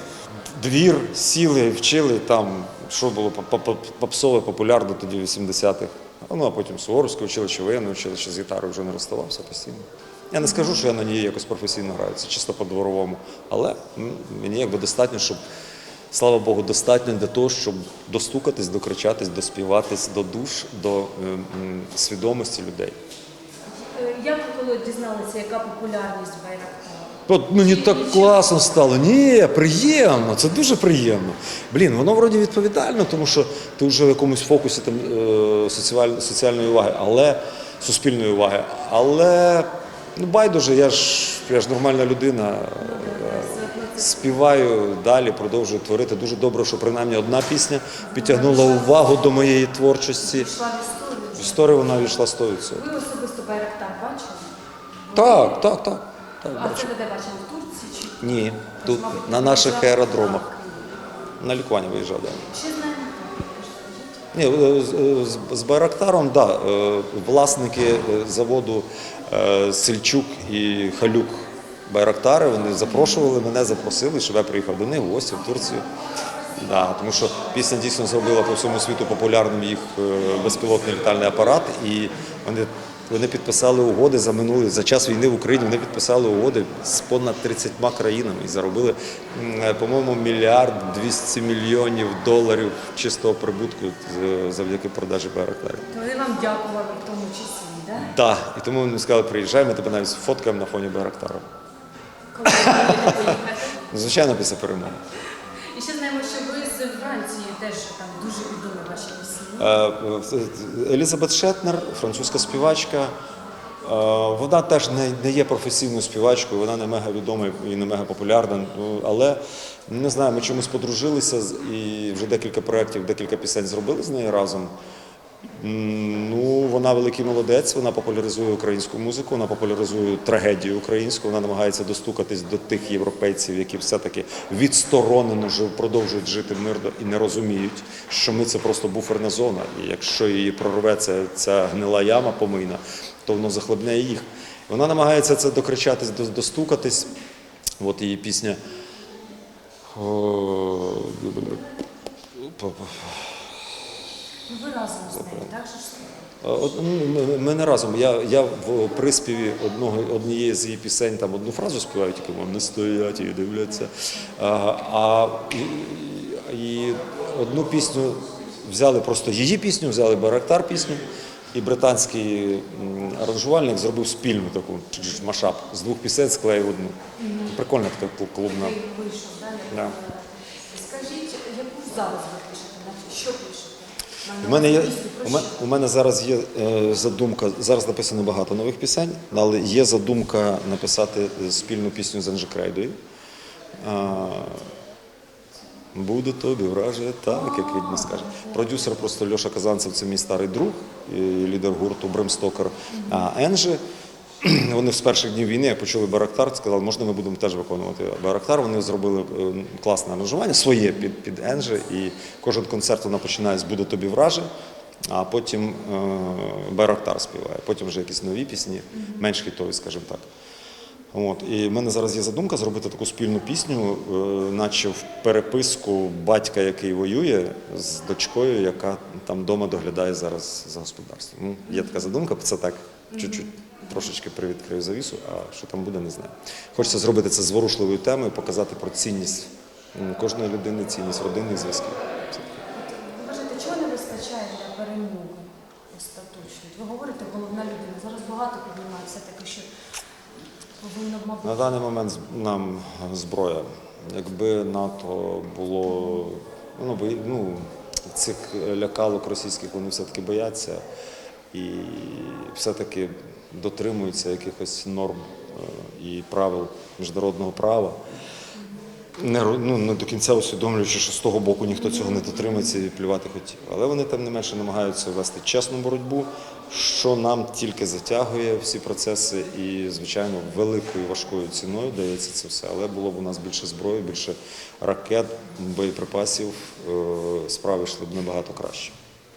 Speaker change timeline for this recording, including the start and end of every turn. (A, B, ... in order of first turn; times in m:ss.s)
0:00.5-0:15.4 A
0:10.5-0:10.8 B
0:16.1-0:23.0 A
0:23.8-0:28.6 B
0:27.3-0:50.5 A
0:42.8-0:44.4 B
0:48.1-0:49.3 B
0:50.2-0:52.2 B
0:51.4-0:52.9 A
0:52.7-0:54.5 B
0:55.1-0:55.6 B
0:55.1-0:56.9 A
0:56.5-0:58.2 B
0:58.2-1:00.5 A
0:58.8-1:00.9 B
1:01.4-1:02.4 A
1:02.5-1:04.2 B
1:04.3-1:15.8 A
1:16.6-1:35.9 A
1:35.9-1:38.1 B
1:38.0-1:41.4 A
1:42.3-1:43.8 B
1:42.4-1:43.1 A
1:43.9-1:45.0 A
1:45.7-1:49.7 B
1:49.6-1:53.1 A
1:53.8-2:04.7 A
2:05.6-2:27.1 A
2:27.8-2:28.6 A
2:29.9-2:31.6 A
2:32.4-2:33.3 A
2:34.5-2:36.1 B
2:36.4-2:51.0 A
2:51.5-2:57.0 A
2:57.2-2:57.6 B
2:57.5-2:58.8 A
2:58.5-3:05.5 B
3:04.4-3:12.9 A
3:13.8-3:14.6 A
3:15.9-3:23.8 A
3:17.6-3:18.6 B
3:22.9-3:23.3 B
3:24.4-3:34.5 A
3:35.1-3:40.2 A
3:41.1-4:02.6 A
3:51.7-3:51.9 B
3:53.1-3:53.9 B
4:02.7-4:09.7 B
4:10.8-4:11.7 B
4:11.4-4:20.8 A
4:21.5-4:28.0 A
4:29.2-4:48.9 A